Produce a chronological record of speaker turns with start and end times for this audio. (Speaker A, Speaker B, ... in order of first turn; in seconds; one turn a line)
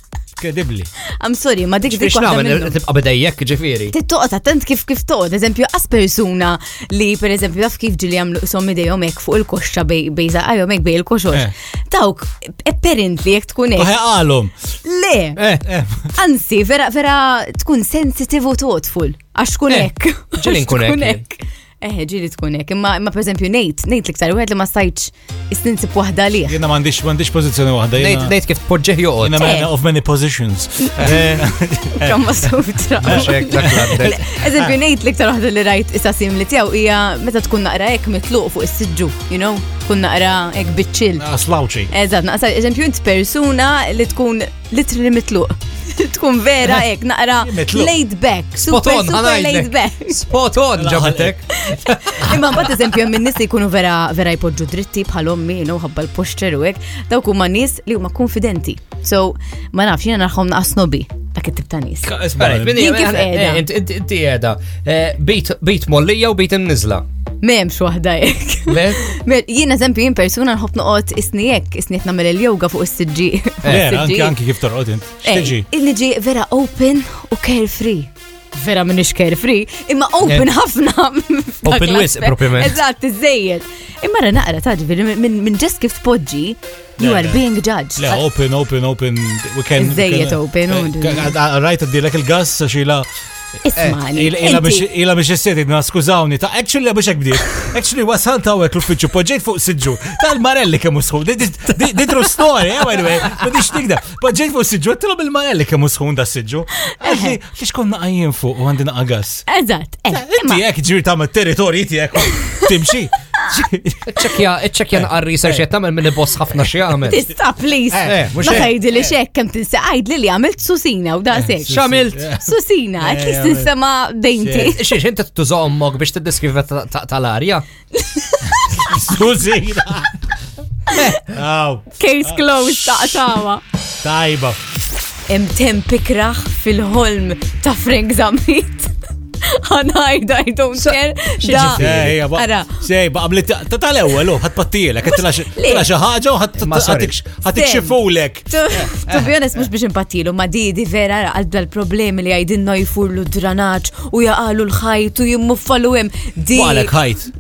Speaker A: 0.4-0.9
Speaker B: 1.2-2.8
Speaker C: 1.9-3.9
Speaker B: 3.9-13.9
Speaker A: 13.8-14.5
Speaker B: 14.8-15.4
Speaker C: 15.4-15.7
Speaker A: 15.7-16.1
Speaker B: 16.1-26.6
Speaker C: 19.7-21.2
Speaker A: 26.5-28.3
Speaker C: 28.0-29.5
Speaker A: 29.2-32.2
Speaker B: 29.4-29.7
Speaker C: 31.0-31.4
Speaker B: 32.0-41.3
Speaker C: 33.0-34.2
Speaker A: 33.0-34.8
Speaker A: 41.2-41.9
Speaker B: 41.9-50.2
Speaker A: 47.4-48.0
Speaker C: 48.6-51.4
Speaker A: 50.8-51.4
Speaker B: 51.5-62.1
Speaker C: 52.1-52.3
Speaker A: 52.2-52.7
Speaker A: 62.0-62.8
Speaker C: 62.4-67.0
Speaker B: 62.7-63.6
Speaker B: 67.4-74.4
Speaker C: 68.7-69.0
Speaker C: 73.6-73.9
Speaker A: 73.7-75.7
Speaker B: 75.2-88.2
Speaker C: 81.6-82.8
Speaker A: 87.0-87.4
Speaker A: 88.0-93.1
Speaker B: 89.8-91.3
Speaker B: 93.7-94.8
Speaker A: 93.9-109.5
Speaker B: 106.8-107.3
Speaker B: 109.5-110.6
Speaker A: 110.1-114.4
Speaker C: 114.1-117.2
Speaker A: 115.0-115.6
Speaker B: 117.0-121.8
Speaker A: 117.9-119.1
Speaker C: 118.0-118.7
Speaker A: 121.4-123.7
Speaker C: 121.7-122.3
Speaker B: 122.4-124.8
Speaker A: 124.4-124.8
Speaker C: 124.7-127.7
Speaker B: 128.0-129.0
Speaker A: 128.5-130.2
Speaker B: 130.9-131.2
Speaker C: 130.9-131.2
Speaker A: 131.3-133.2
Speaker B: 132.0-133.6
Speaker A: 134.0-134.6
Speaker B: 135.3-138.9
Speaker B: 139.4-142.8
Speaker C: 140.8-142.2
Speaker A: 141.7-149.4
Speaker B: 145.5-145.9
Speaker C: 146.6-147.1
Speaker B: 147.5-148.0
Speaker B: 148.5-156.9
Speaker A: 156.5-157.3